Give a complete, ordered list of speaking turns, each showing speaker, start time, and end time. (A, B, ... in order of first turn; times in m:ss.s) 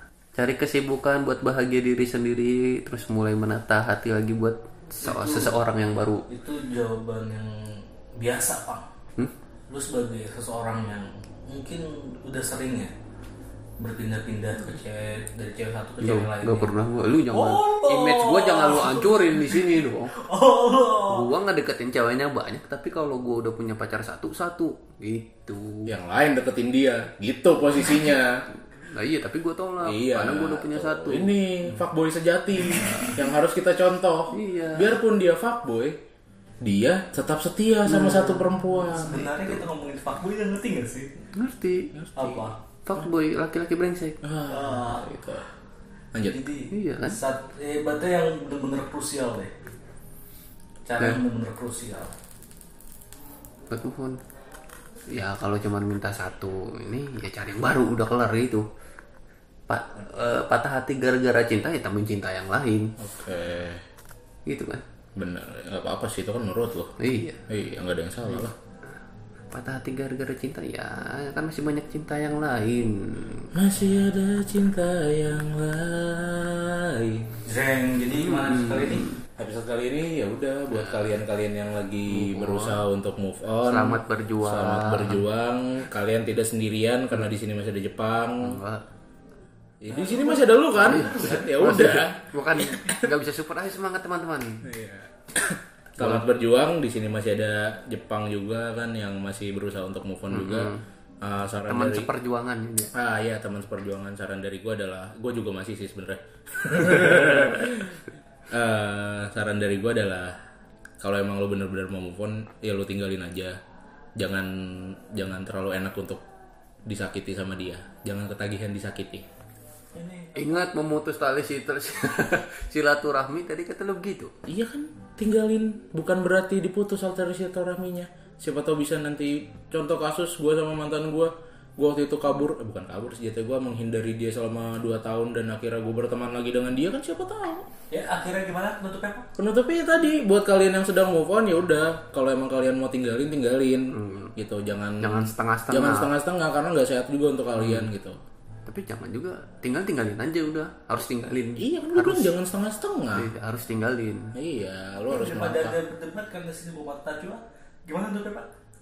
0:00.3-0:06.3 A
0:05.0-0:05.6 B
0:06.3-0:08.8 B
0:09.7-0:12.9 B
0:13.8-0:16.7 B
0:16.0-0:20.2 A
0:17.3-0:21.3 B
0:21.1-0:25.9 A
0:25.9-0:28.4 C
0:28.8-0:31.3 A
0:29.8-0:36.0 C
0:34.3-0:35.0 A
0:36.6-0:39.3 C
0:37.9-0:38.5 A
0:38.8-0:41.1 B
0:39.3-0:39.6 A
0:41.3-0:44.2 A
0:42.2-0:42.6 B
0:44.2-0:45.5 C
0:44.5-0:45.1 B
0:46.1-0:46.4 C
0:46.3-0:49.5 B
0:46.7-0:47.2 A
0:50.8-0:52.1 B
0:53.7-0:54.2 A
0:55.1-0:58.6 A
0:59.7-1:02.9 A
1:03.0-1:03.8 C
1:04.4-1:04.8 A
1:05.2-1:06.9 C
1:07.0-1:07.4 A
1:07.5-1:08.5 C
1:09.5-1:13.5 A
1:13.5-1:17.3 C
1:17.4-1:19.1 B
1:19.4-1:28.6 C
1:22.1-1:22.8 A
1:23.6-1:25.2 A
1:28.4-1:28.8 A
1:29.8-1:33.1 C
1:29.9-1:31.4 B
1:30.8-1:34.7 A
1:34.6-1:42.1 C
1:36.0-1:36.2 A
1:40.3-1:40.8 A
1:41.7-1:42.9 A
1:42.9-1:50.4 C
1:51.0-1:53.6 C
1:54.2-1:56.2 C
1:56.9-1:59.2 C
1:59.9-2:00.4 B
2:00.4-2:04.3 A
2:04.4-2:17.7 C
2:17.9-2:19.3 B
2:19.4-2:28.2 C
2:23.9-2:24.3 A
2:25.0-2:26.1 A
2:27.6-2:27.9 A
2:28.6-2:32.3 A
2:31.6-2:33.3 C
2:33.1-2:34.3 A
2:34.3-2:35.8 C
2:35.1-2:38.5 B